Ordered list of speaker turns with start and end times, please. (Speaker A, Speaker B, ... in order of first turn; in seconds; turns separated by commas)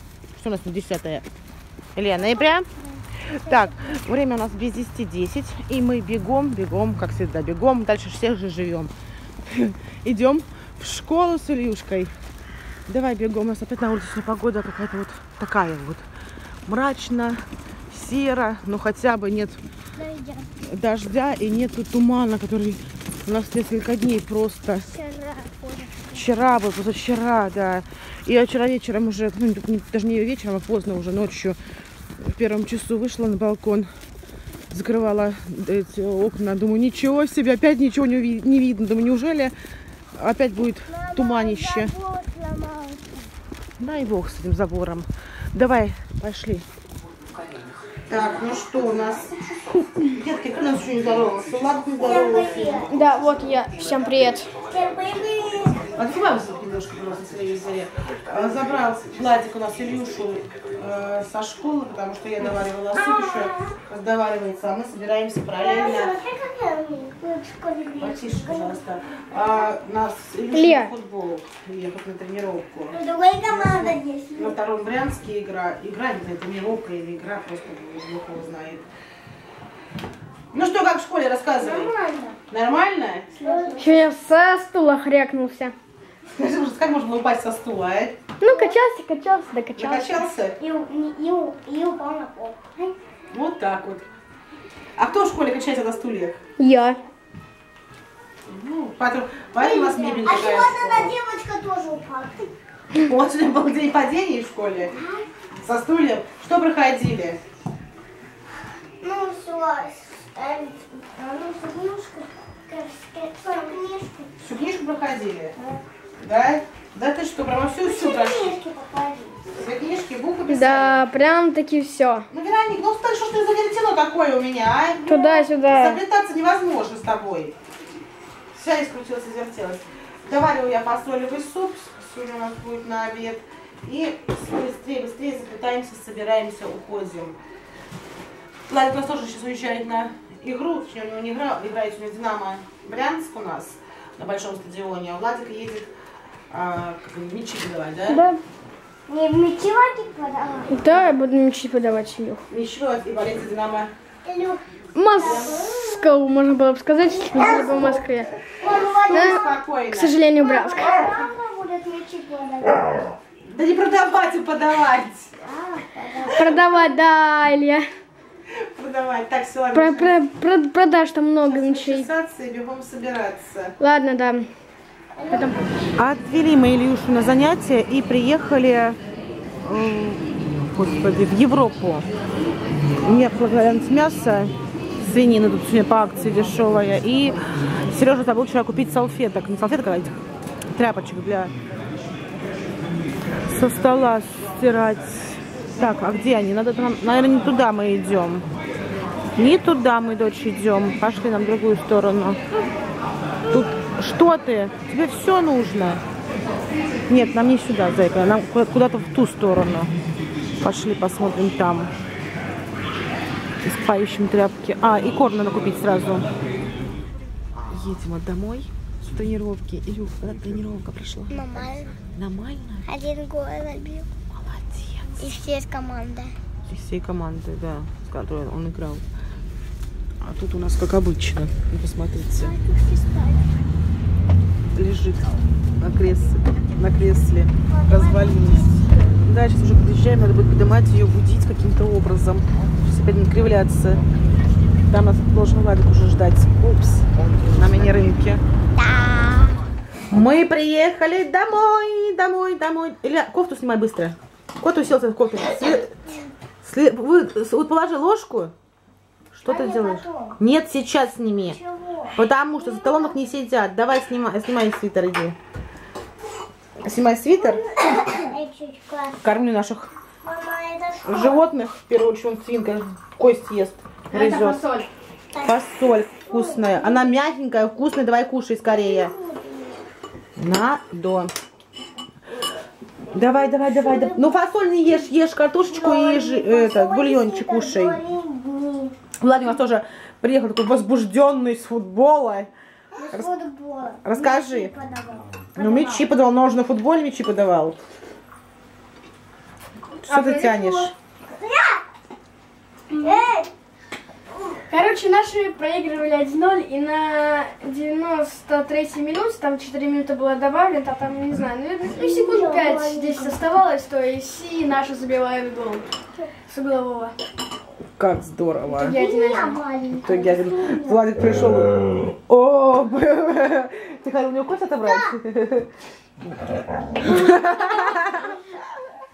Speaker A: 0.3-1.2, Speaker A: 1.9-2.7, Speaker B: 2.2-4.0, Speaker A: 3.2-8.9, Speaker A: 9.4-12.1, Speaker A: 12.9-16.0, Speaker A: 16.7-19.6, Speaker B: 20.0-20.5, Speaker A: 20.6-24.9, Speaker B: 24.8-26.2, Speaker A: 26.1-31.6, Speaker A: 32.2-33.9, Speaker A: 34.7-39.5, Speaker A: 40.1-41.9, Speaker B: 40.9-43.3, Speaker A: 43.8-46.7, Speaker A: 48.1-49.4, Speaker A: 50.0-52.9, Speaker B: 52.0-52.9, Speaker C: 52.9-54.5, Speaker B: 54.7-55.9, Speaker A: 55.9-66.2, Speaker B: 62.9-63.7, Speaker B: 65.6-68.8, Speaker A: 68.0-78.9, Speaker C: 70.5-70.9, Speaker B: 72.9-74.6, Speaker A: 80.5-81.9, Speaker B: 81.6-82.4, Speaker A: 82.5-83.3, Speaker B: 83.4-84.1, Speaker C: 83.5-85.7, Speaker A: 86.3-88.2, Speaker C: 88.4-90.2, Speaker B: 88.5-88.8, Speaker A: 89.8-90.6, Speaker B: 90.6-93.0, Speaker A: 93.3-94.1, Speaker A: 95.0-96.4, Speaker C: 96.6-97.0, Speaker A: 98.5-101.2, Speaker B: 99.6-102.5, Speaker A: 102.9-104.9, Speaker B: 104.9-105.2, Speaker A: 105.6-107.4, Speaker B: 109.0-114.3, Speaker A: 114.4-115.5, Speaker A: 116.2-118.5, Speaker B: 117.8-119.4, Speaker A: 119.5-121.0, Speaker C: 120.5-122.3, Speaker A: 122.3-127.5, Speaker C: 125.1-126.0, Speaker A: 128.5-137.4, Speaker A: 138.7-145.9, Speaker A: 146.5-148.3, Speaker C: 148.1-148.4, Speaker B: 149.1-150.8, Speaker C: 150.7-152.4, Speaker A: 152.5-153.9, Speaker B: 154.2-155.9, Speaker C: 154.9-158.3, Speaker A: 155.2-155.5, Speaker B: 157.3-158.0, Speaker B: 158.6-159.4, Speaker A: 158.7-160.2, Speaker C: 159.1-161.0, Speaker B: 160.4-163.1, Speaker A: 163.4-165.3, Speaker B: 165.4-166.5, Speaker C: 166.3-167.8, Speaker A: 166.5-166.8, Speaker A: 168.7-170.2, Speaker C: 169.7-172.1, Speaker A: 171.4-173.8, Speaker C: 173.8-174.5, Speaker B: 175.2-175.7, Speaker C: 175.3-175.6, Speaker A: 176.0-179.0, Speaker A: 179.6-182.1, Speaker A: 183.0-187.4, Speaker A: 187.9-190.2, Speaker A: 190.7-191.5, Speaker A: 193.5-198.5, Speaker A: 199.4-202.4, Speaker A: 203.5-206.0, Speaker A: 207.1-209.9, Speaker A: 210.6-211.9, Speaker A: 213.6-216.3, Speaker A: 217.7-222.9, Speaker B: 221.3-222.0, Speaker B: 222.9-224.1, Speaker A: 224.3-225.3, Speaker B: 225.2-226.3, Speaker A: 226.7-229.0, Speaker A: 230.2-232.5, Speaker B: 232.4-233.6, Speaker A: 234.7-244.0, Speaker B: 237.7-239.1, Speaker A: 244.9-248.4, Speaker B: 248.9-249.4, Speaker A: 250.1-255.9, Speaker A: 256.6-258.5, Speaker A: 259.3-261.6, Speaker B: 259.5-260.4, Speaker B: 261.5-263.3, Speaker A: 262.1-265.4, Speaker A: 266.9-267.6, Speaker B: 267.4-269.2, Speaker A: 269.2-269.9, Speaker B: 270.2-271.4, Speaker A: 271.1-274.6, Speaker C: 274.1-274.9, Speaker B: 275.3-275.7, Speaker A: 275.4-279.1, Speaker B: 276.2-277.2, Speaker B: 278.6-279.8, Speaker A: 280.4-281.3, Speaker A: 283.1-288.0, Speaker B: 283.6-284.3, Speaker B: 285.7-289.0, Speaker A: 289.2-292.5, Speaker B: 292.9-296.1, Speaker A: 294.0-294.7, Speaker A: 295.6-297.8, Speaker A: 300.0-300.9, Speaker C: 300.1-300.9, Speaker B: 301.3-301.8, Speaker B: 302.9-303.5, Speaker C: 302.9-303.2, Speaker C: 304.7-315.9, Speaker B: 311.9-313.4, Speaker C: 316.5-317.1, Speaker A: 318.0-319.0, Speaker C: 318.7-319.6, Speaker B: 318.9-321.0, Speaker A: 319.9-325.7, Speaker B: 324.8-325.1, Speaker A: 327.0-328.4, Speaker B: 327.3-328.4